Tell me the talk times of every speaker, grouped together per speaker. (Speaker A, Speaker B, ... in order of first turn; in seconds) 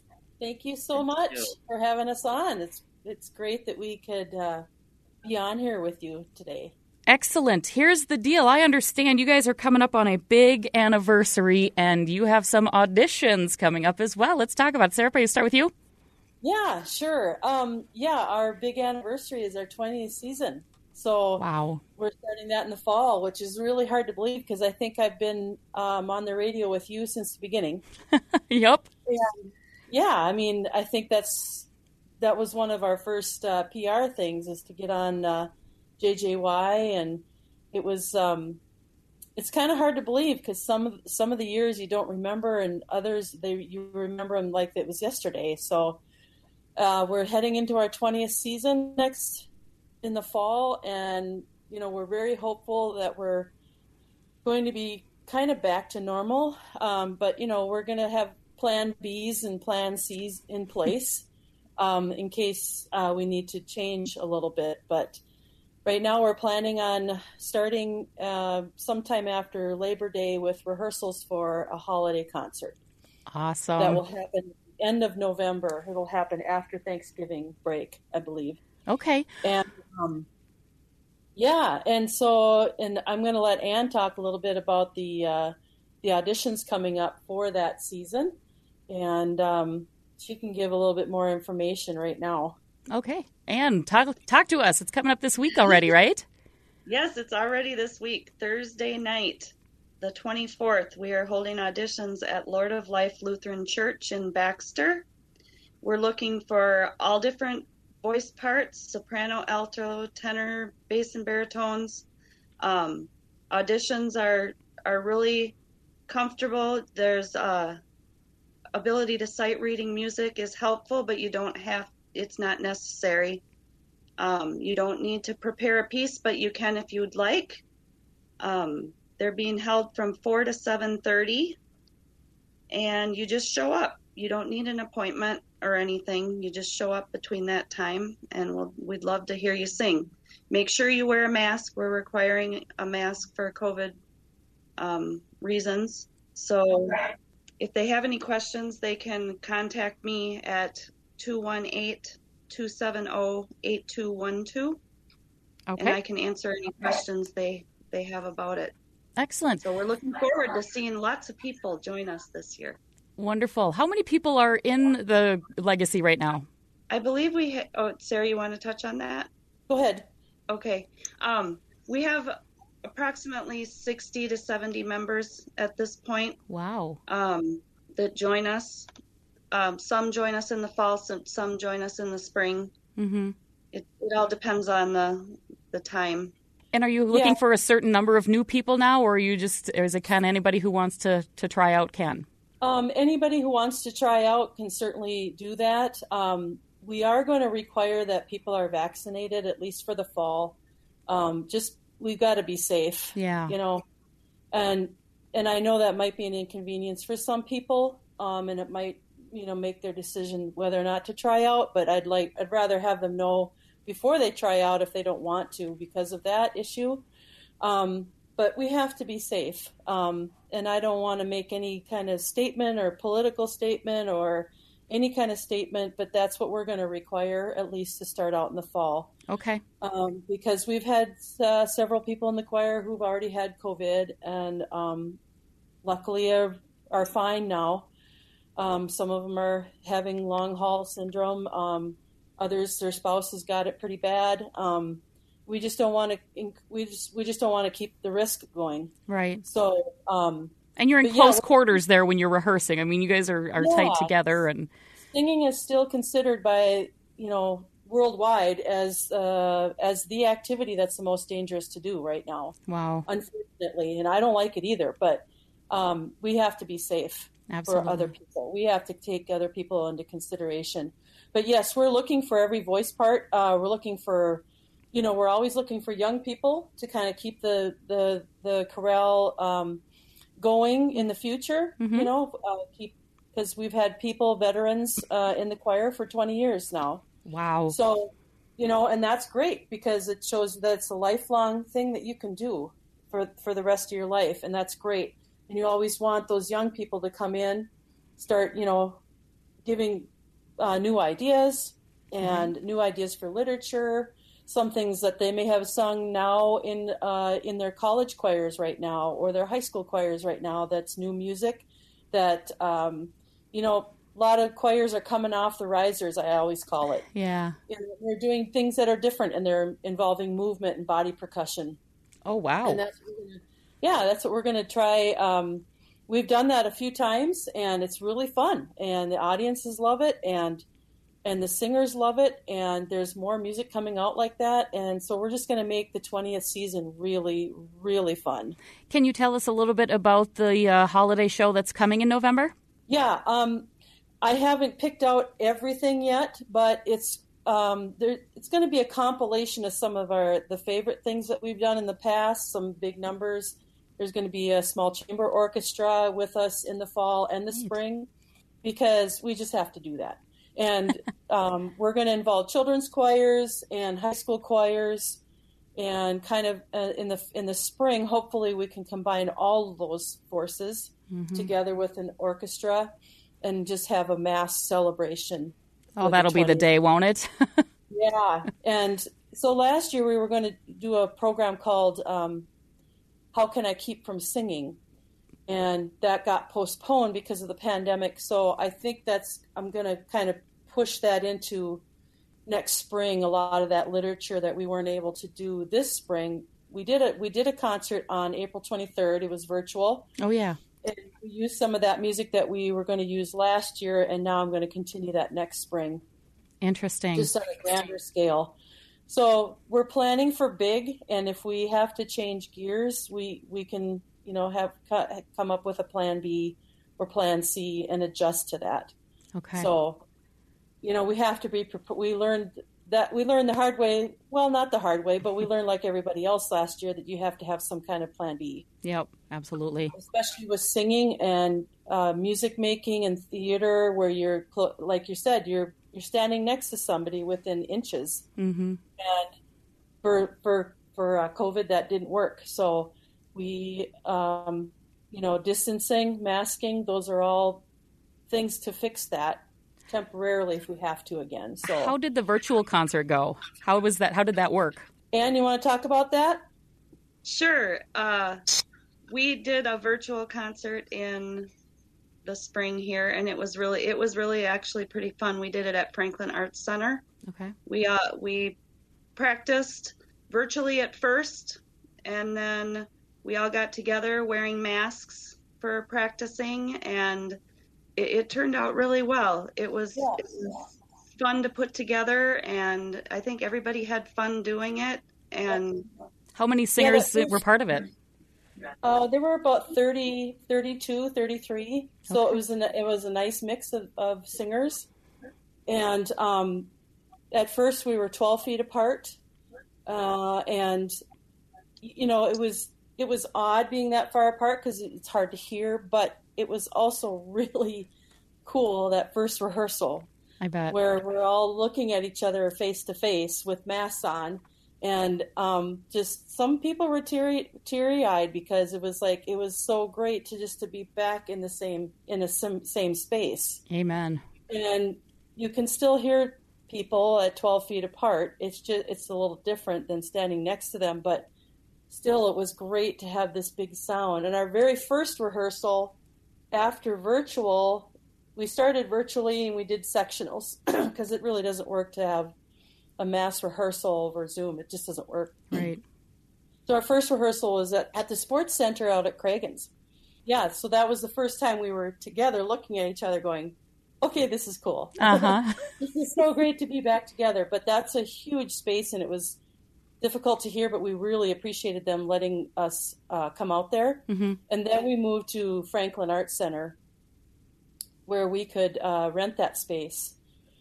Speaker A: 0.4-4.6, 5.2-6.7, 16.4-21.4, 22.0-27.8, 29.1-31.7, 32.2-38.6, 39.4-46.0, 46.8-49.5, 50.0-53.5, 54.4-65.2, 65.8-72.8, 73.8-78.6, 79.4-80.3, 81.3-88.3, 88.9-92.6, 169.7-170.0, 187.1-187.4, 192.6-203.8, 204.5-217.1, 217.6-229.1, 229.8-235.2, 235.8-237.9, 238.6-248.9, 249.4-251.4, 253.6-254.2, 255.0-279.8, 280.4-287.0, 287.7-299.0, 299.6-317.0, 317.7-321.8, 322.6-330.6, 331.2-338.6, 342.9-343.7, 344.2-358.1, 358.6-365.2, 365.8-376.7, 377.9-382.5, 383.3-384.8, 385.5-391.8, 392.4-400.1, 400.8-406.0, 407.1-408.6, 409.1-418.9, 419.5-420.0, 420.8-428.7, 429.9-438.3, 439.0-439.3, 440.0-447.6, 448.3-451.9, 455.1-456.4, 486.8-487.4, 488.8-494.9, 495.7-496.7, 497.3-499.2, 499.9-500.9, 501.8-507.9, 508.4-510.1, 510.7-523.6, 524.5-531.3, 531.9-536.0, 536.5-542.3, 543.0-545.6, 546.7-549.7, 550.2-559.4, 560.0-566.8, 568.0-570.2
Speaker B: 7.1-15.7, 21.4-21.8, 28.5-28.9, 73.3-74.0, 78.9-79.3, 92.9-96.2, 155.7-156.0, 159.2-159.6, 163.2-166.5, 176.5-177.0, 183.0-183.3, 186.7-192.2, 203.1-203.5, 229.3-229.6, 249.1-249.4, 250.8-254.7, 262.7-263.1, 267.5-268.1, 281.8-282.1, 287.2-287.8, 302.2-302.5, 317.1-317.6, 322.2-322.8, 338.9-342.5, 371.1-371.5, 376.0-377.6, 400.2-400.6, 406.6-407.3, 419.4-419.7, 428.8-429.9, 438.4-438.8, 451.6-454.9, 467.3-467.5, 486.3-487.9, 510.4-510.8, 523.7-524.2, 545.5-545.8, 555.0-555.6, 564.1-564.4
Speaker C: 96.8-105.0, 105.8-112.0, 112.6-115.5, 116.1-117.8, 118.7-123.4, 124.2-127.6, 128.4-131.6, 132.7-144.0, 144.8-154.8, 155.8-158.7, 159.6-162.8, 166.9-169.3, 170.5-176.4, 177.1-178.9, 179.5-182.7, 183.7-186.3, 457.2-458.4, 459.1-461.5, 462.2-467.0, 467.6-468.6, 469.1-477.4, 477.9-485.9